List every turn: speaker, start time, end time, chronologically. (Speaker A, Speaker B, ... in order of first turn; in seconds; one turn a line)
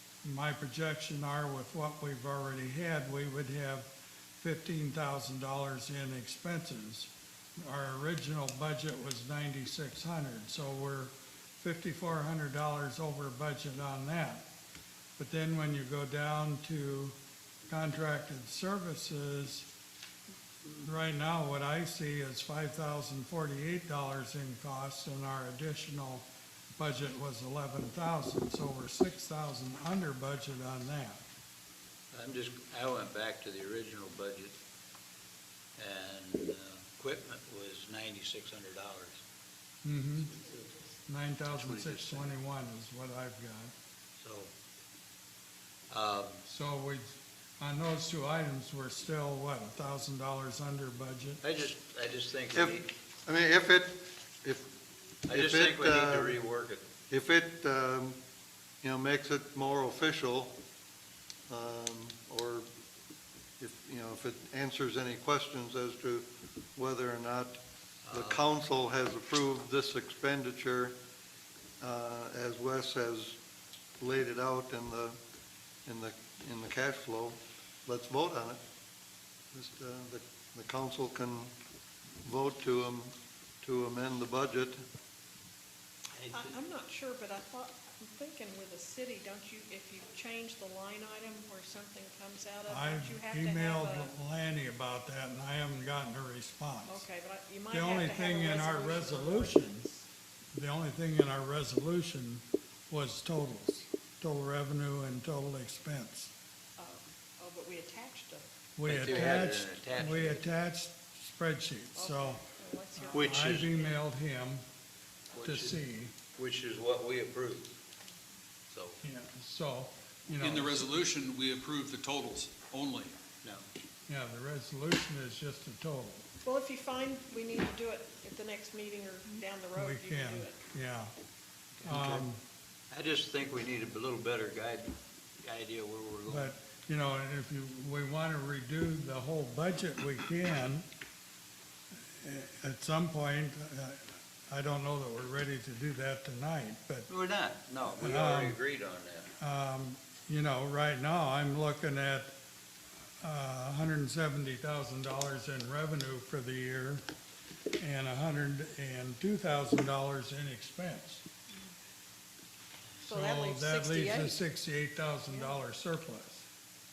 Speaker A: 0.2-14.4
Speaker A: 15.2-17.1
Speaker A: 17.7-19.7
Speaker A: 20.6-26.2
Speaker A: 26.8-31.2
Speaker B: 32.1-34.6
Speaker B: 35.8-39.2
Speaker A: 39.8-40.3
Speaker A: 41.1-43.7
Speaker B: 41.5-42.4
Speaker B: 44.2-44.5
Speaker B: 45.9-46.4
Speaker A: 46.5-51.4
Speaker B: 51.4-52.9
Speaker C: 52.5-54.6
Speaker B: 55.2-56.8
Speaker C: 55.3-56.4
Speaker C: 57.1-58.2
Speaker C: 58.8-60.5
Speaker C: 61.5-62.7
Speaker C: 63.6-67.6
Speaker B: 68.1-68.4
Speaker C: 68.1-70.9
Speaker C: 71.8-73.4
Speaker C: 74.0-75.2
Speaker C: 75.8-78.6
Speaker C: 79.5-81.5
Speaker C: 82.2-84.8
Speaker B: 86.1-86.6
Speaker D: 86.3-94.1
Speaker A: 92.7-97.0
Speaker D: 96.9-99.9
Speaker A: 97.7-99.9
Speaker A: 100.5-106.3
Speaker D: 106.8-108.5
Speaker A: 108.8-112.4
Speaker B: 108.8-110.5
Speaker D: 111.9-113.9
Speaker A: 112.9-114.6
Speaker B: 113.1-113.7
Speaker B: 115.3-115.8
Speaker A: 115.4-116.1
Speaker B: 116.3-117.7
Speaker B: 118.7-119.0
Speaker A: 119.0-120.9
Speaker E: 120.4-123.1
Speaker A: 124.1-126.2
Speaker D: 126.4-130.6
Speaker A: 129.8-131.1
Speaker B: 131.8-132.2
Speaker A: 131.8-132.4
Speaker B: 132.9-136.5
Speaker A: 136.3-140.8
Speaker A: 142.2-147.1
Speaker B: 147.1-149.3
Speaker A: 147.9-148.6
Speaker A: 149.4-152.3
Speaker A: 153.2-157.0
Speaker A: 157.8-161.2
Speaker A: 163.0-166.4
Speaker D: 163.1-164.4
Speaker D: 165.3-165.6